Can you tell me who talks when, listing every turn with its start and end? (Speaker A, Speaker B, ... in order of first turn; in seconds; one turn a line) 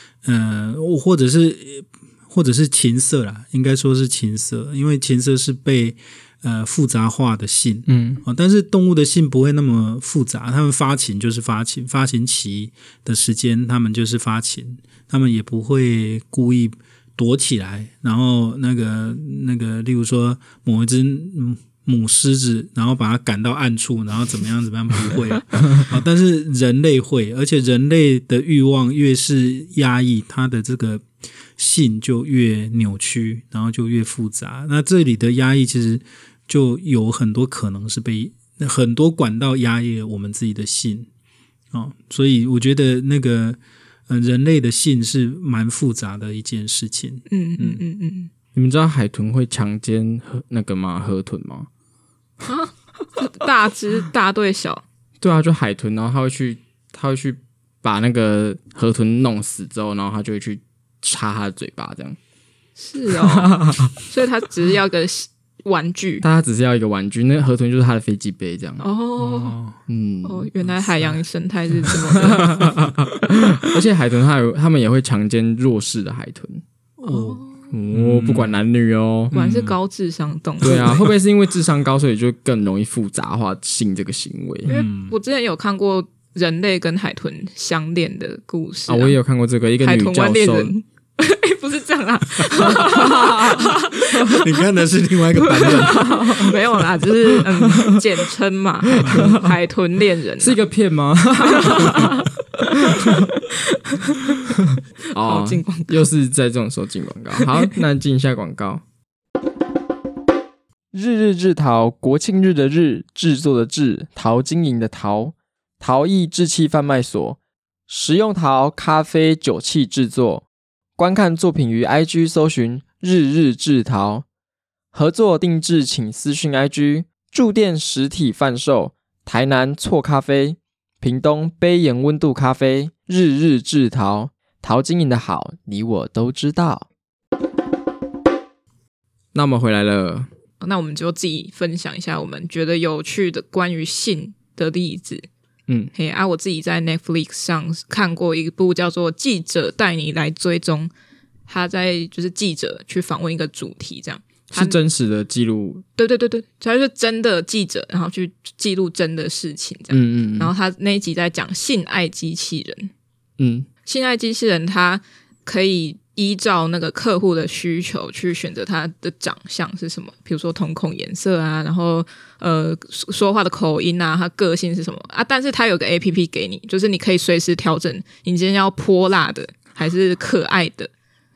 Speaker A: 0.2-31.1
Speaker B: 7.9-8.2
Speaker A: 31.6-41.1
Speaker A: 41.7-47.8
Speaker C: 47.3-48.3
Speaker B: 48.5-51.7
Speaker C: 52.4-54.8
Speaker B: 55.2-62.2
Speaker C: 62.8-66.2
Speaker B: 63.4-63.9
Speaker B: 66.2-68.8
Speaker C: 68.8-69.5
Speaker A: 69.2-69.8
Speaker B: 69.9-70.5
Speaker C: 70.2-72.7
Speaker A: 70.7-71.2
Speaker A: 71.9-72.9
Speaker B: 72.2-76.6
Speaker A: 77.0-78.6
Speaker C: 77.0-77.7
Speaker B: 77.7-79.3
Speaker A: 79.3-79.8
Speaker C: 79.3-81.1
Speaker A: 80.6-81.1
Speaker B: 80.6-84.7
Speaker C: 84.7-89.2
Speaker A: 84.7-85.1
Speaker B: 88.9-90.7
Speaker C: 89.8-94.5
Speaker A: 94.2-96.5
Speaker C: 95.4-100.6
Speaker B: 97.6-98.0
Speaker B: 98.9-99.5
Speaker A: 99.0-99.3
Speaker B: 100.4-102.3
Speaker C: 101.5-104.5
Speaker B: 102.8-103.3
Speaker B: 104.6-108.8
Speaker C: 105.2-106.1
Speaker C: 107.4-107.7
Speaker B: 110.9-117.4
Speaker B: 117.9-120.4
Speaker B: 121.0-124.2
Speaker B: 124.9-136.9
Speaker B: 139.3-140.3
Speaker C: 140.6-145.3
Speaker C: 145.9-150.9
Speaker C: 151.5-154.8
Speaker B: 154.5-155.8
Speaker C: 156.0-162.9
Speaker B: 159.9-160.5
Speaker B: 163.4-163.7
Speaker C: 163.8-180.9